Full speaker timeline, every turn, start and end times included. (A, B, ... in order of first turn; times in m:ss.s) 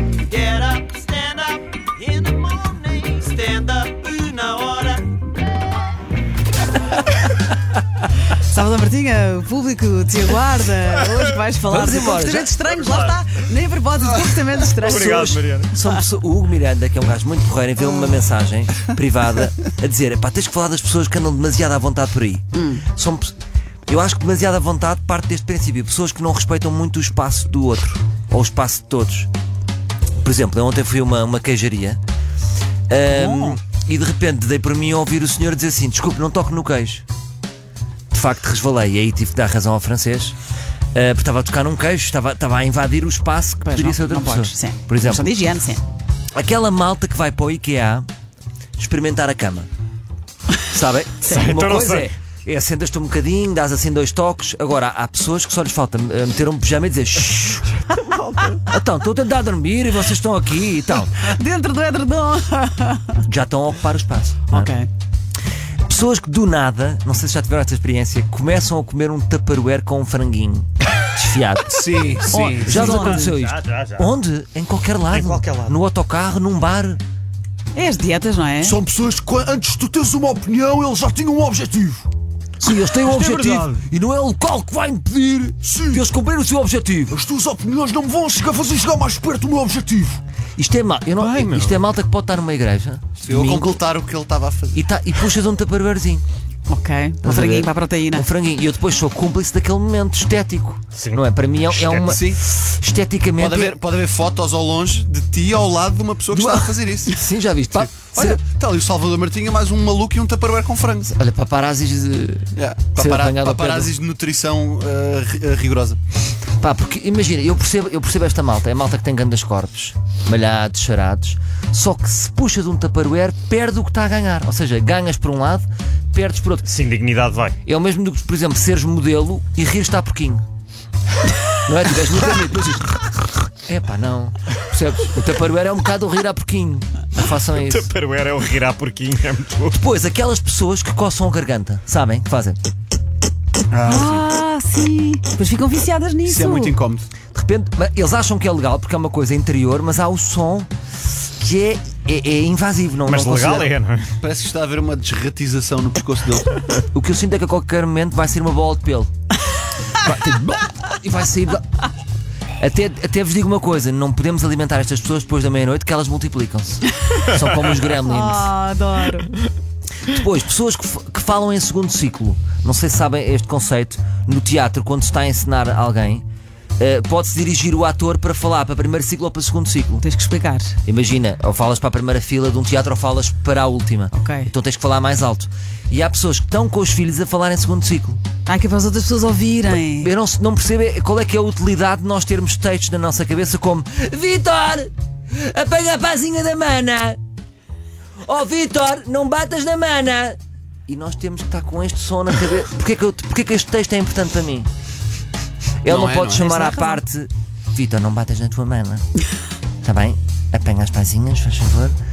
0:00.3-0:05.1 A
0:08.4-0:15.3 B
0:11.7-0:12.6 C
0:12.7-0:13.2 D
0:14.8-0:15.8 D
0:14.8-0:23.3 C
0:22.5-0:22.8 B
0:23.9-0:29.3 C
0:30.2-0:32.0 C
0:32.9-0:37.0 C
0:38.1-0:40.4 C
0:40.9-0:45.4 C
0:43.6-0:45.8 B
0:46.4-0:48.1 C
0:48.8-0:49.7 C
0:50.7-0:57.8 C
0:51.2-0:52.1 D
0:58.5-1:01.2 C
1:01.2-1:03.2 B
1:03.3-1:04.7 C
1:04.5-1:04.9 B
1:05.9-1:11.9 C
1:11.7-1:13.2 E
1:12.3-1:13.4 B
1:12.6-1:17.0 C
1:12.8-1:14.1 D
1:15.1-1:15.8 D
1:17.7-1:18.8 B
1:18.6-1:22.1 F
1:22.6-1:27.2 C
1:23.1-1:23.7 D
1:25.6-1:26.1 F
1:27.1-1:30.2 F
1:30.6-1:33.8 C
1:31.2-1:31.8 D
1:33.2-1:34.8 E
1:34.7-1:36.2 C
1:36.7-1:38.3 B
1:37.2-1:43.8 C
1:41.0-1:42.2 D
1:42.0-1:42.4 E
1:43.4-1:47.2 E
1:46.3-1:48.4 C
1:47.8-1:51.1 E
1:51.1-1:53.9 C
1:52.6-1:56.0 E
1:56.6-2:06.7 C
2:06.6-2:07.6 D
2:07.6-2:10.4 C
2:11.7-2:17.9 C
2:17.3-2:19.8 D
2:19.7-2:22.6 C
2:23.7-2:24.2 E
2:23.8-2:26.8 B
2:26.3-2:27.1 E
2:27.3-2:30.7 C
2:31.4-2:33.7 C
2:33.0-2:34.1 D
2:34.2-2:36.6 E
2:36.9-2:39.1 C
2:40.0-2:41.6 C
2:42.6-2:48.5 C
2:48.0-2:49.4 B
2:50.1-2:56.2 C
2:56.8-3:00.1 C
3:00.0-3:00.7 B
3:00.8-3:08.2 C
3:04.1-3:04.5 B
3:08.5-3:10.1 B
3:10.0-3:17.2 C
3:18.2-3:24.7 C
3:25.8-3:29.0 C
3:25.9-3:26.4 E
3:26.4-3:27.0 B
3:29.8-3:32.0 C